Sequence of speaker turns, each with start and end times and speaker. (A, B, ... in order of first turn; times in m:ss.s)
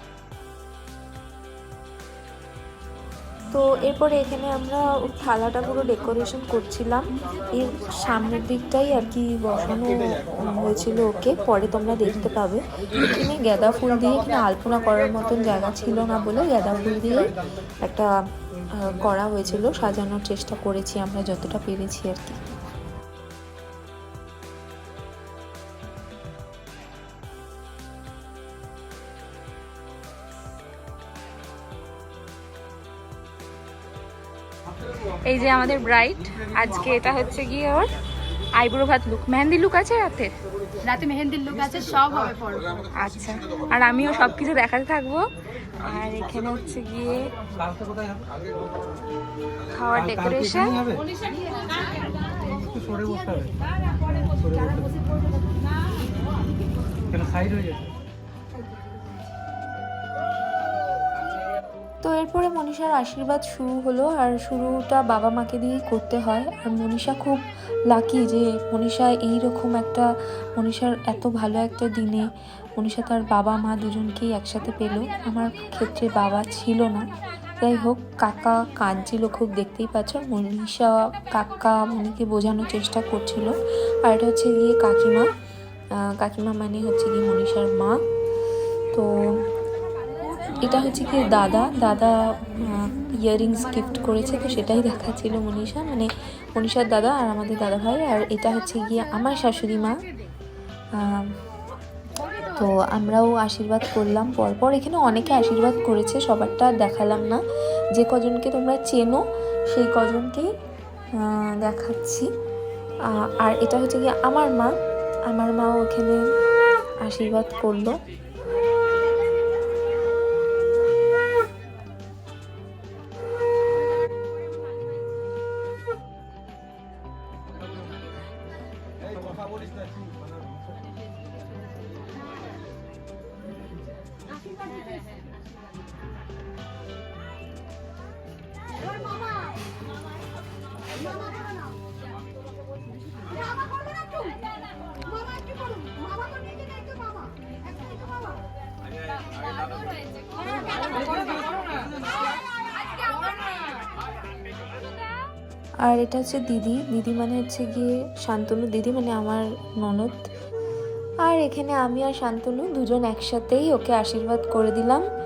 0:03.5-0:17.3 A
0:17.8-0:18.1 A
0:18.7-0:22.4 A
0:35.2-0:37.9 A
0:38.6-0:40.3 A
0:40.8-0:42.7 B
0:43.0-0:45.3 A
0:45.8-0:47.3 A
0:47.6-0:48.3 C
0:49.7-0:50.8 A
0:49.9-0:51.0 C
0:51.2-0:52.1 B
0:52.5-0:53.5 C
0:54.4-0:54.9 C
0:57.1-0:57.9 C
1:02.0-1:25.3 A
1:26.0-1:28.0 A
1:28.9-1:29.4 A
1:30.5-1:40.0 A
1:41.0-1:41.3 A
1:42.5-1:47.4 A
1:47.9-1:50.5 A
1:51.2-1:52.3 A
1:53.1-1:54.7 A
1:55.3-1:56.2 A
1:57.0-1:58.0 A
2:25.4-2:26.8 B
2:30.5-2:31.5 B
2:35.8-2:40.3 A
2:41.2-2:45.0 A